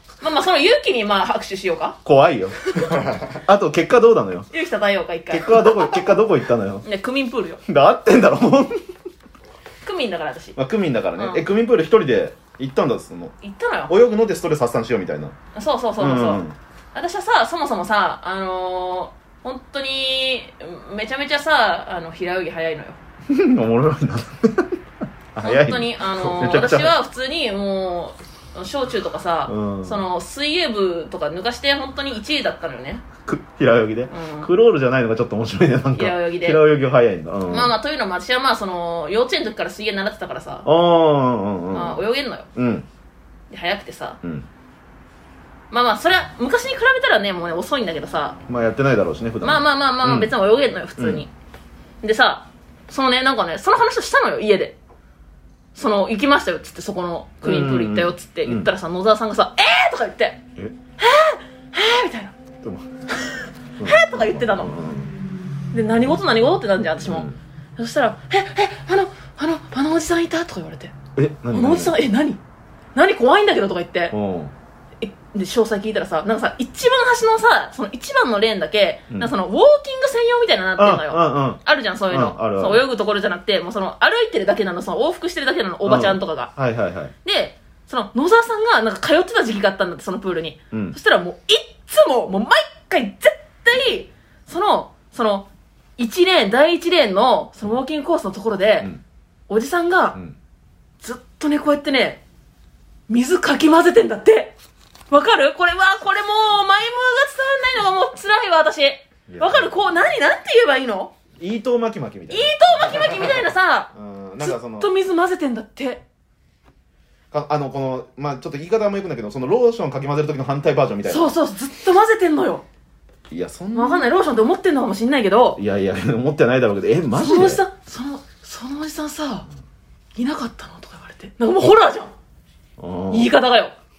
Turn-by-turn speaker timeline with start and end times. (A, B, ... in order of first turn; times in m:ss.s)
0:00.2-0:02.0 A
0:02.0-0:04.5 B
0:04.5-0:06.0 A
0:05.3-0:06.9 B
0:06.8-0:07.6 A
0:07.7-0:08.9 B
0:09.8-0:10.6 A
0:10.6-0:13.3 B
0:11.2-0:11.5 A
0:13.4-0:14.0 A
0:13.9-0:15.4 B
0:15.5-0:16.4 A
0:16.0-0:16.6 B
0:16.9-0:23.0 A
0:23.3-0:24.8 B
0:25.3-0:26.9 B
0:25.4-0:33.0 A
0:29.5-0:30.0 B
0:33.2-0:37.7 B
0:34.1-0:34.5 A
0:36.0-0:36.6 A
0:37.5-0:40.7 A
0:40.6-0:42.0 B
0:41.7-0:42.5 A
0:42.6-0:42.9 B
0:43.5-0:44.2 A
0:45.7-0:48.4 A
0:48.5-0:50.3 B
0:49.4-0:51.3 A
0:51.0-0:51.2 B
0:52.0-0:54.8 A
0:55.8-1:00.4 A
0:57.4-0:58.7 B
1:01.0-1:02.4 A
1:02.6-1:02.9 B
1:03.3-1:04.7 A
1:03.8-1:05.1 B
1:05.7-1:10.9 A
1:07.0-1:07.4 B
1:11.2-1:12.0 B
1:11.5-1:12.4 A
1:13.0-1:14.1 A
1:14.1-1:14.5 B
1:15.0-1:26.5 A
1:20.8-1:22.8 B
1:25.8-1:27.1 B
1:27.2-1:35.5 A
1:30.7-1:31.0 B
1:36.0-1:38.9 A
1:39.5-1:40.2 A
1:41.0-1:42.2 A
1:43.1-1:44.6 A
1:45.1-1:51.1 A
1:49.3-1:49.7 B
1:51.4-1:53.4 B
1:52.3-1:56.0 A
1:53.9-1:54.9 B
1:57.3-2:01.3 B
2:01.1-2:02.6 A
2:03.3-2:04.1 B
2:03.7-2:05.6 A
2:05.6-2:07.6 B
2:07.2-2:09.5 A
2:10.2-2:12.1 A
2:12.8-2:13.3 B
2:13.1-2:13.7 A